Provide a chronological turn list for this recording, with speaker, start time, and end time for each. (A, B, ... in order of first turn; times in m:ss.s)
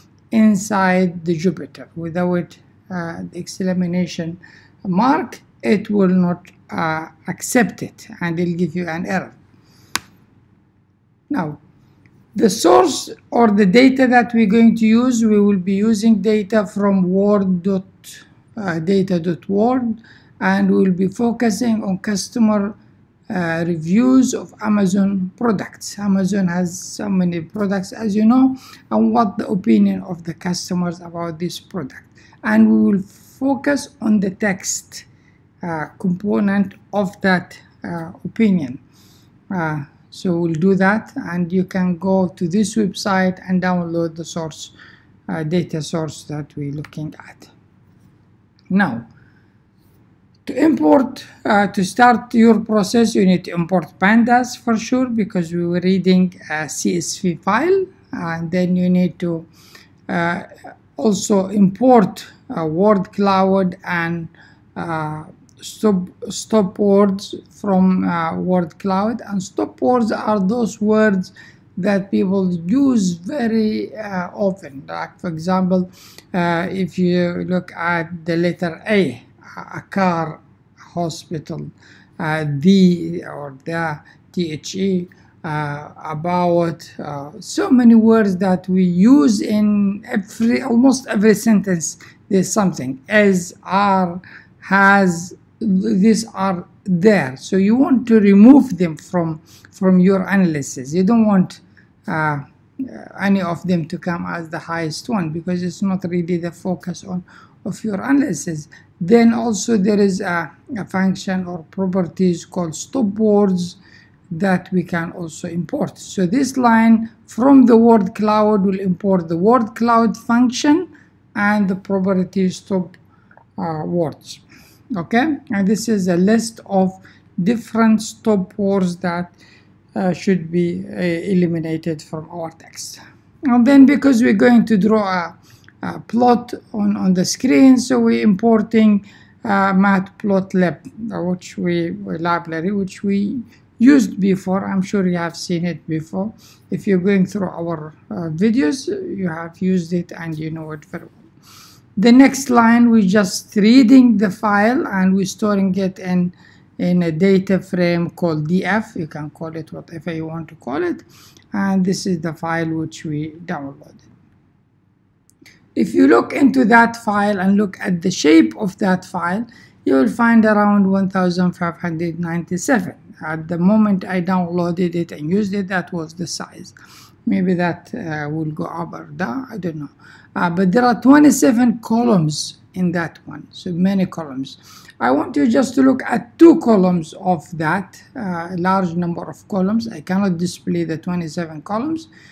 0:00.3-0:09.4 A
0:11.3-0:11.6 A
0:12.4-0:22.8 A
0:23.3-0:35.1 A
0:35.6-0:38.8 A
0:39.5-0:44.7 A
0:45.3-0:47.5 A
0:48.7-0:49.0 A
0:50.5-0:59.5 A
1:00.1-1:53.8 A
1:54.3-2:03.0 A
2:03.6-2:04.4 A
2:05.0-2:09.4 A
2:10.0-2:31.2 A
2:32.0-2:44.1 A
2:45.8-2:56.8 A
2:57.3-3:12.1 A